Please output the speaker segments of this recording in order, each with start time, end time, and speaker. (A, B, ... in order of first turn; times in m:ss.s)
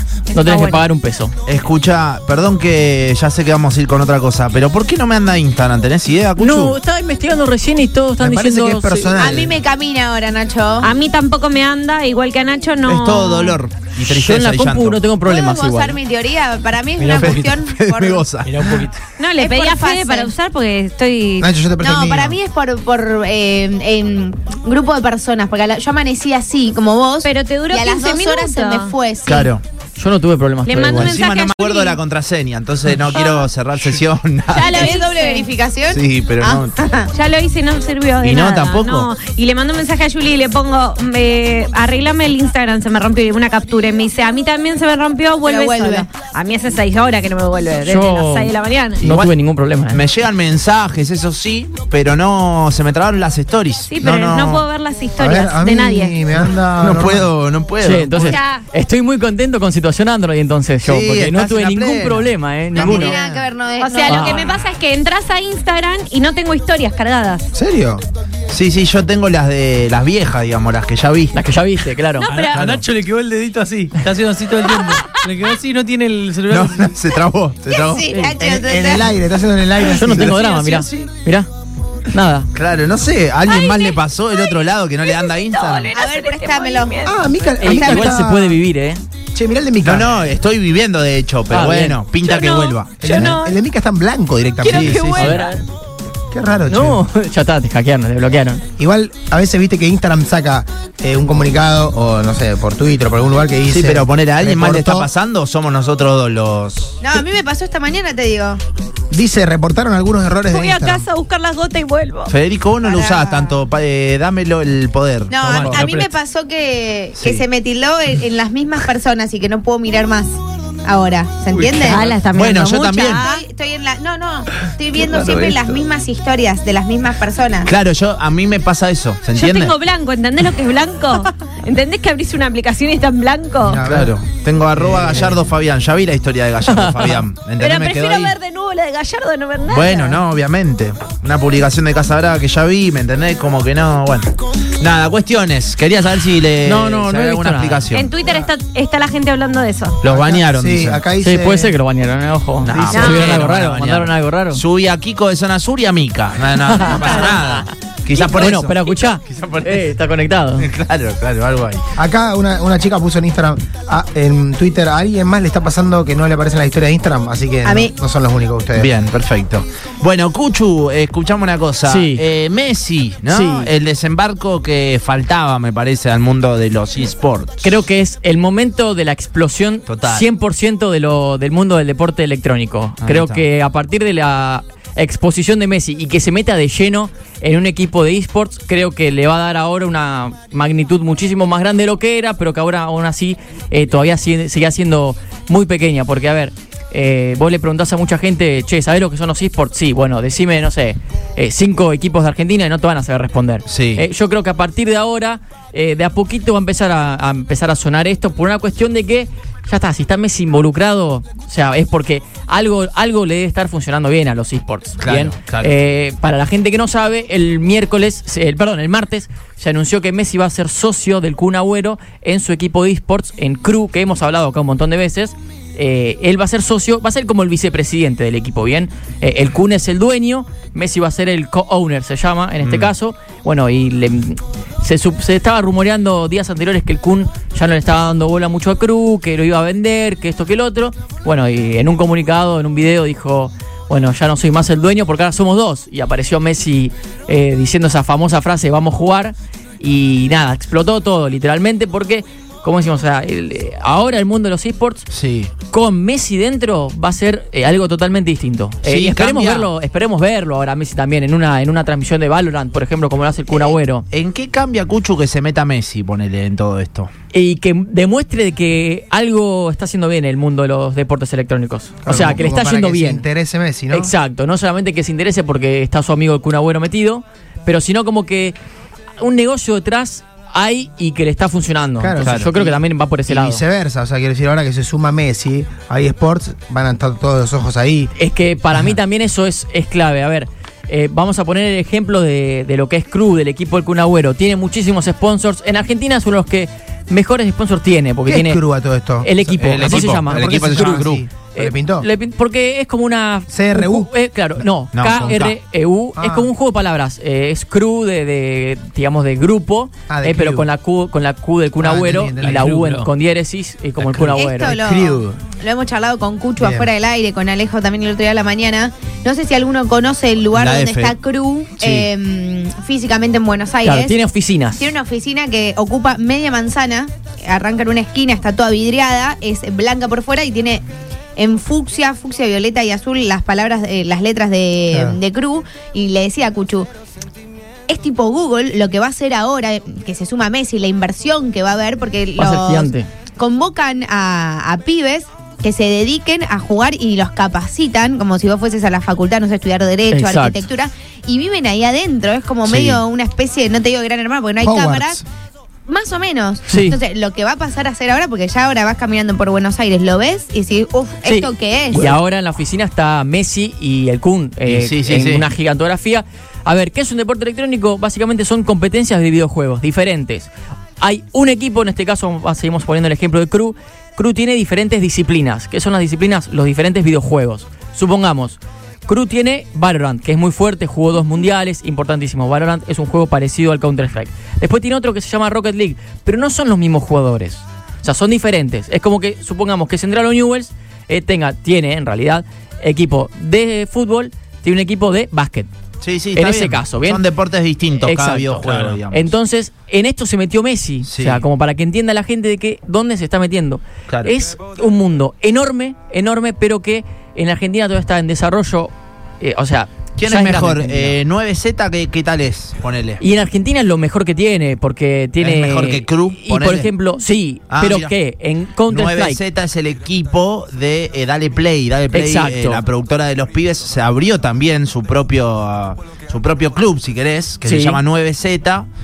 0:00.3-0:01.3 A
0:00.3-0:00.8 B
0:01.5-0:06.7 C
0:06.4-0:09.2 A
0:08.2-0:09.6 D
0:09.2-0:10.9 E
0:10.8-0:13.6 B
0:12.8-0:15.0 C
0:14.0-0:16.0 A
0:15.2-0:18.3 E
0:17.0-0:17.6 F
0:17.2-0:18.6 C
0:18.3-0:19.1 F
0:19.2-0:21.5 B
0:19.4-0:20.3 E
0:21.4-0:22.4 D
0:21.8-0:29.5 E
0:27.2-0:29.0 B
0:29.2-0:29.6 C
0:30.0-0:31.2 A
0:30.6-0:32.0 B
0:30.9-0:34.9 C
0:33.1-0:33.5 B
0:34.5-0:35.5 B
0:34.5-0:37.1 E
0:35.9-0:36.7 C
0:37.1-0:49.1 B
0:38.2-0:39.1 C
0:45.4-0:46.1 E
0:47.8-0:50.0 A
0:49.0-0:49.4 C
0:49.9-0:54.6 C
0:53.9-0:56.2 B
0:55.2-0:57.3 D
0:56.4-0:58.4 C
0:57.8-1:03.2 A
0:58.1-0:58.6 B
1:00.8-1:03.3 C
1:02.7-1:04.7 E
1:03.8-1:07.5 B
1:04.1-1:04.4 A
1:07.5-1:08.0 D
1:08.5-1:11.3 C
1:11.3-1:12.3 A
1:12.2-1:12.7 B
1:12.3-1:17.0 F
1:12.5-1:12.8 C
1:14.8-1:15.3 B
1:16.5-1:18.2 C
1:17.7-1:19.1 E
1:18.5-1:20.4 D
1:19.8-1:21.5 A
1:20.1-1:20.5 C
1:20.6-1:21.1 F
1:22.1-1:22.5 A
1:22.5-1:26.0 C
1:23.4-1:27.1 B
1:25.9-1:27.0 E
1:27.0-1:28.6 D
1:27.6-1:29.0 A
1:27.6-1:28.2 E
1:29.3-1:30.3 D
1:29.8-1:33.3 C
1:31.5-1:32.0 A
1:32.2-1:33.5 B
1:33.0-1:35.4 D
1:34.6-1:35.6 B
1:34.7-1:35.4 C
1:35.1-1:35.6 A
1:36.3-1:37.0 D
1:36.7-1:38.6 A
1:38.8-1:45.1 D
1:43.7-1:47.1 C
1:47.0-1:48.6 E
1:49.1-1:51.0 D
1:50.5-1:52.3 B
1:52.3-1:55.9 C
1:52.8-1:53.6 E
1:55.3-2:02.1 E
1:55.4-1:56.1 F
1:57.1-1:57.4 C
2:01.6-2:02.0 F
2:01.8-2:03.4 B
2:02.3-2:03.3 C
2:03.0-2:07.7 E
2:05.1-2:05.4 C
2:07.6-2:09.8 C
2:09.3-2:13.8 B
2:13.6-2:14.1 D
2:13.8-2:18.3 C
2:14.7-2:15.5 D
2:16.7-2:17.2 A
2:17.6-2:20.2 B
2:19.6-2:28.1 C
2:26.6-2:27.9 A
2:27.9-2:30.0 B
2:30.0-2:31.0 C
2:30.1-2:31.7 D
2:31.2-2:34.6 A
2:32.6-2:38.8 C
2:32.7-2:33.1 D
2:32.9-2:33.4 B
2:36.6-2:37.4 A
2:36.8-2:37.4 B
2:38.1-2:38.4 E
2:38.3-2:40.7 A
2:39.3-2:39.6 C
2:40.6-2:41.8 C
2:42.0-2:48.9 D
2:47.6-2:47.9 E
2:48.7-2:57.7 C
2:51.8-2:52.2 A
2:53.3-2:53.7 A
2:57.6-4:15.0 A
2:59.9-3:00.2 C
3:03.0-3:03.4 C
3:23.7-3:24.0 C
3:35.0-3:35.7 C
3:52.6-3:52.9 C
4:15.1-4:15.5 C
4:15.7-4:24.0 A
4:18.8-4:19.7 C
4:23.5-4:27.1 C
4:27.3-4:33.2 A
4:32.0-4:34.1 D
4:33.9-4:38.6 A
4:39.2-4:43.6 A
4:42.0-4:48.1 D
4:42.2-4:42.5 C
4:48.2-4:58.6 A
4:58.2-5:02.1 D
4:59.2-5:14.8 A
4:59.6-5:01.2 C
5:03.5-5:04.6 D
5:04.9-5:05.6 C
5:06.2-5:06.5 D
5:10.1-5:10.7 D
5:11.8-5:12.6 D
5:12.4-5:13.1 F
5:14.0-5:15.4 F
5:14.3-5:24.1 E
5:14.9-5:15.2 D
5:16.6-5:16.9 D
5:20.5-5:21.2 C
5:21.8-5:22.1 C
5:23.8-5:24.9 A
5:24.8-5:30.8 E
5:31.4-5:36.9 E
5:34.9-5:35.2 D
5:37.9-5:55.2 E
5:42.4-5:43.1 A
5:50.1-5:50.7 A
5:52.6-5:53.0 C
5:54.6-5:55.2 D
5:55.9-6:02.2 E
5:56.7-5:57.0 A
6:01.2-6:10.5 A
6:04.6-6:05.4 C
6:11.0-6:35.7 A
6:36.0-6:39.3 C
6:36.3-6:37.2 A
6:38.0-6:51.2 A
6:38.7-6:39.0 F
6:41.0-6:41.4 C
6:44.1-6:44.3 C
6:50.2-6:53.2 C
6:53.2-6:59.4 A
6:55.4-6:56.9 C
6:57.7-6:58.1 C
6:58.9-7:08.9 C
7:02.1-7:02.8 A
7:07.6-7:08.0 A